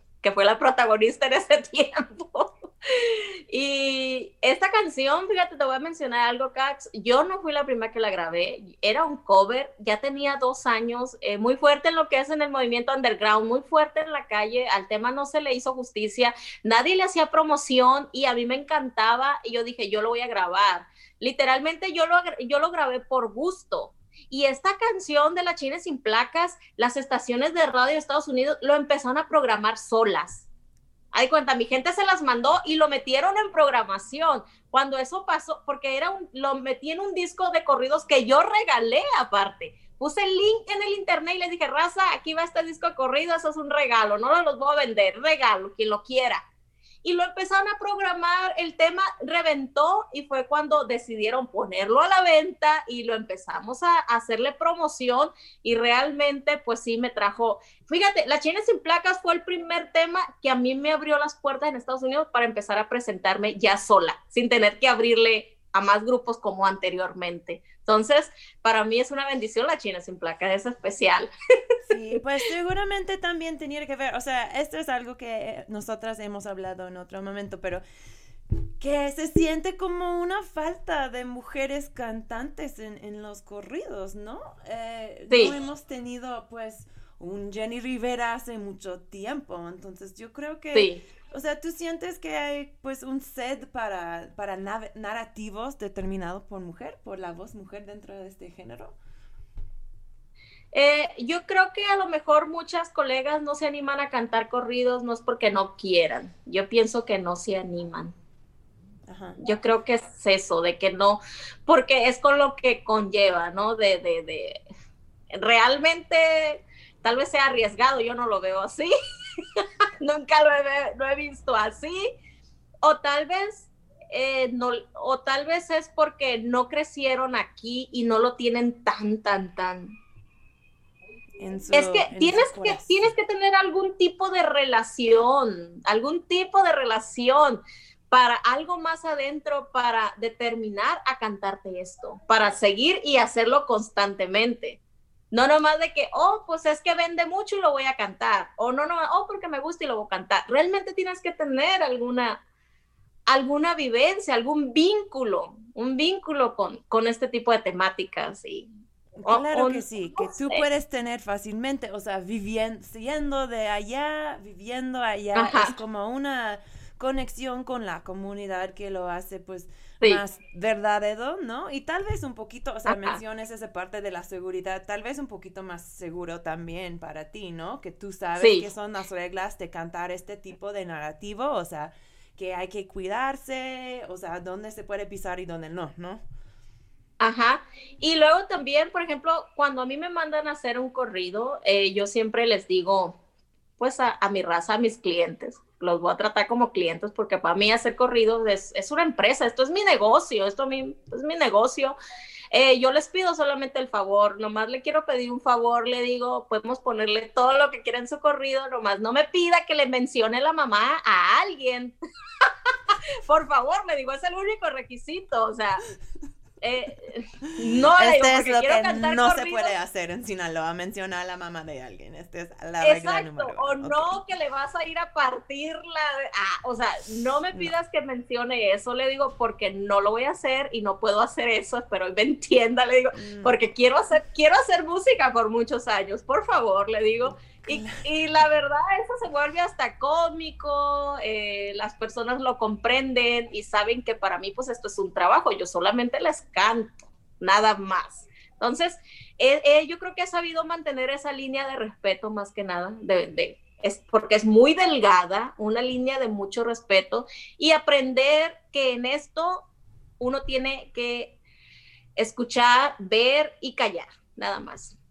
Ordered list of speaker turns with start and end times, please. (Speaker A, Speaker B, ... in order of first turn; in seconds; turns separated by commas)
Speaker A: 0.2-30.4, Speaker A: 31.1-46.4, Speaker A: 47.0-71.3, Speaker B: 71.9-77.8, Speaker B: 78.8-98.9, Speaker A: 90.7-91.0, Speaker A: 100.7-108.1, Speaker B: 109.1-109.4, Speaker A: 109.4-114.6, Speaker A: 115.3-118.9, Speaker A: 119.6-122.1, Speaker A: 122.8-130.0, Speaker B: 131.4-133.0, Speaker A: 131.7-144.8, Speaker A: 145.3-152.4, Speaker A: 153.3-158.7, Speaker B: 159.2-186.2, Speaker A: 159.2-160.7, Speaker A: 165.3-165.7, Speaker A: 172.9-173.2, Speaker A: 178.4-178.6, Speaker A: 187.2-193.2, Speaker A: 193.8-201.9, Speaker A: 202.5-211.9, Speaker A: 213.2-215.8, Speaker A: 216.6-219.7, Speaker B: 217.9-224.2, Speaker A: 222.8-259.7, Speaker B: 233.1-233.5, Speaker B: 237.4-238.1, Speaker A: 260.2-261.4, Speaker A: 262.2-264.9